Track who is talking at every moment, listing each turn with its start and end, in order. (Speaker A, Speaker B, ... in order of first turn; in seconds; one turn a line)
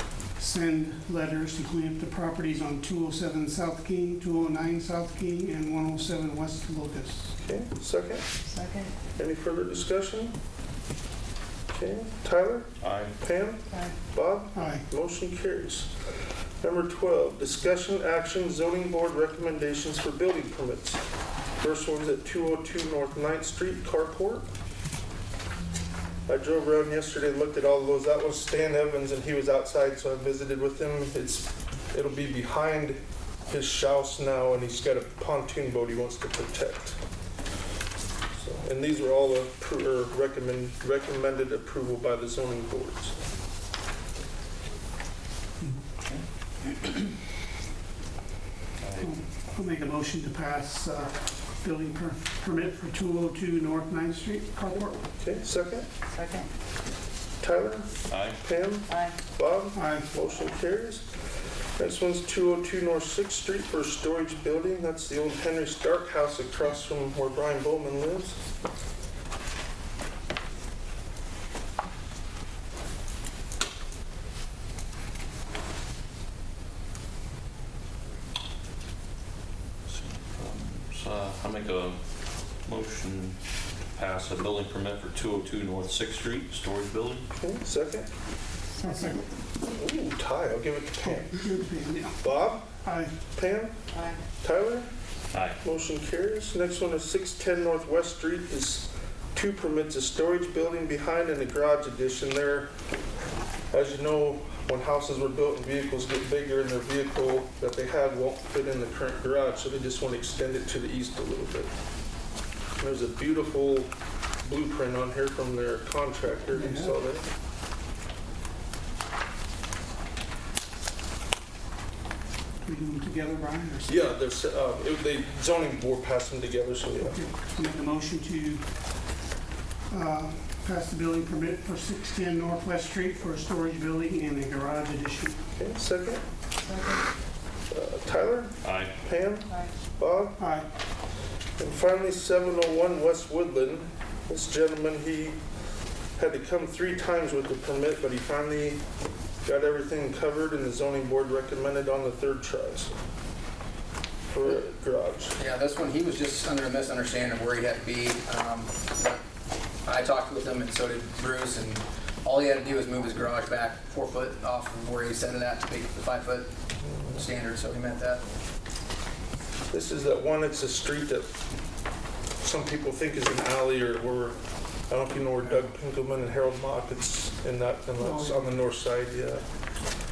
Speaker A: 0.4-7.3
Speaker B: 7.4-8.3
Speaker C: 8.5-8.9
Speaker B: 9.2-10.3
Speaker B: 11.7-12.7
Speaker D: 12.8-13.2
Speaker B: 13.2-15.9
Speaker C: 13.7-13.9
Speaker A: 14.6-14.8
Speaker B: 16.6-21.0
Speaker B: 21.6-24.4
Speaker B: 26.3-37.0
Speaker B: 38.4-43.2
Speaker D: 46.8-47.1
Speaker D: 48.8-49.1
Speaker A: 49.0-55.0
Speaker B: 55.2-55.9
Speaker C: 56.1-56.5
Speaker B: 57.4-61.0
Speaker D: 58.1-58.4
Speaker C: 58.9-59.2
Speaker A: 59.8-60.1
Speaker B: 61.8-68.4
Speaker D: 79.9-82.0
Speaker D: 82.7-83.4
Speaker D: 84.0-87.2
Speaker B: 87.3-88.1
Speaker A: 88.8-89.3
Speaker C: 88.8-89.2
Speaker B: 89.7-91.4
Speaker A: 91.0-93.1
Speaker B: 92.2-92.8
Speaker B: 93.3-93.8
Speaker C: 93.9-94.2
Speaker B: 94.4-94.9
Speaker D: 95.3-95.6
Speaker B: 95.6-102.7
Speaker B: 103.7-111.7
Speaker B: 112.8-113.9
Speaker B: 114.4-117.2
Speaker A: 116.5-117.0
Speaker A: 122.6-123.9
Speaker B: 123.9-127.2
Speaker A: 127.0-128.6
Speaker A: 129.9-135.4
Speaker B: 135.6-136.2
Speaker C: 136.6-137.1
Speaker B: 137.7-140.4
Speaker D: 138.6-138.9
Speaker A: 140.4-140.7
Speaker B: 141.6-145.4
Speaker B: 146.2-148.8
Speaker B: 149.4-152.9
Speaker B: 154.3-155.4
Speaker E: 155.4-159.2
Speaker E: 159.9-166.5
Speaker E: 167.1-168.2
Speaker B: 169.7-171.3
Speaker B: 172.4-174.4
Speaker B: 174.9-179.4
Speaker A: 178.0-178.6